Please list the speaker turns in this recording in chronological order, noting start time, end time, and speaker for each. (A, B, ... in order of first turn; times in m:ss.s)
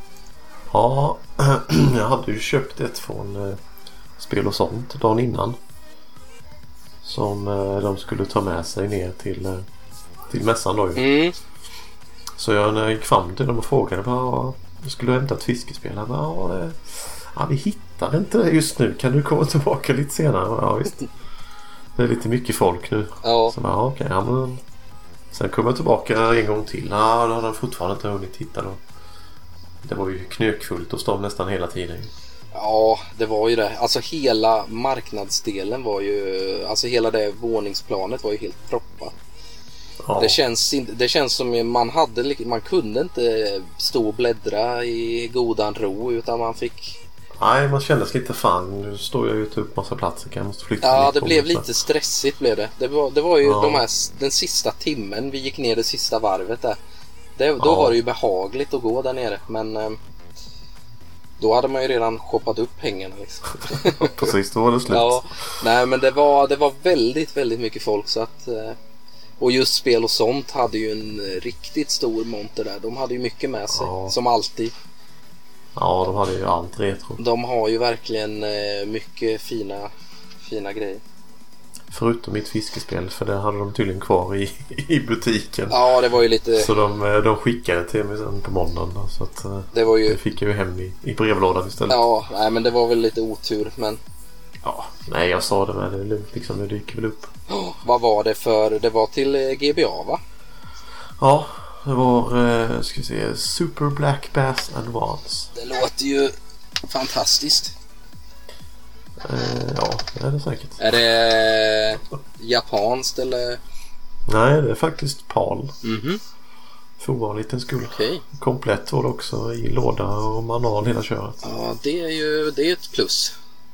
0:00.7-0:03.6 A
0:04.2-0:05.6 A
0:07.0-0:09.6 A
0:10.3-0:11.1 A
0:11.0-0:11.3 B
0:12.4-0:21.0 A
0:22.0-0:24.6 A
0:23.2-0:23.5 B
0:25.3-0:28.8 A
0:29.8-0:32.1 A
0:32.5-0:39.1 B
0:40.0-0:40.4 A
0:40.2-0:47.0 B
0:47.4-0:51.7 A
0:50.8-0:56.8 B
0:53.4-0:53.8 A
0:57.4-1:00.0 B
0:57.6-0:58.0 A
1:01.4-1:04.3 B
1:03.8-1:05.2 A
1:04.9-1:08.8 B
1:09.4-1:14.7 B
1:13.7-1:14.1 A
1:15.8-1:17.2 A
1:17.2-1:19.9 B
1:20.4-1:21.0 B
1:21.9-1:25.9 A
1:25.7-1:26.7 B
1:26.5-1:32.0 A
1:29.7-1:30.2 B
1:31.9-1:34.0 B
1:34.6-1:37.3 A
1:37.5-1:40.2 B
1:41.2-1:45.5 A
1:45.5-1:46.3 B
1:46.8-1:47.7 B
1:49.2-1:50.8 A
1:50.8-1:53.6 B
1:54.3-1:55.8 A
1:55.8-1:56.2 B
1:57.0-2:01.4 A
1:57.9-1:58.2 B
2:01.4-2:03.3 B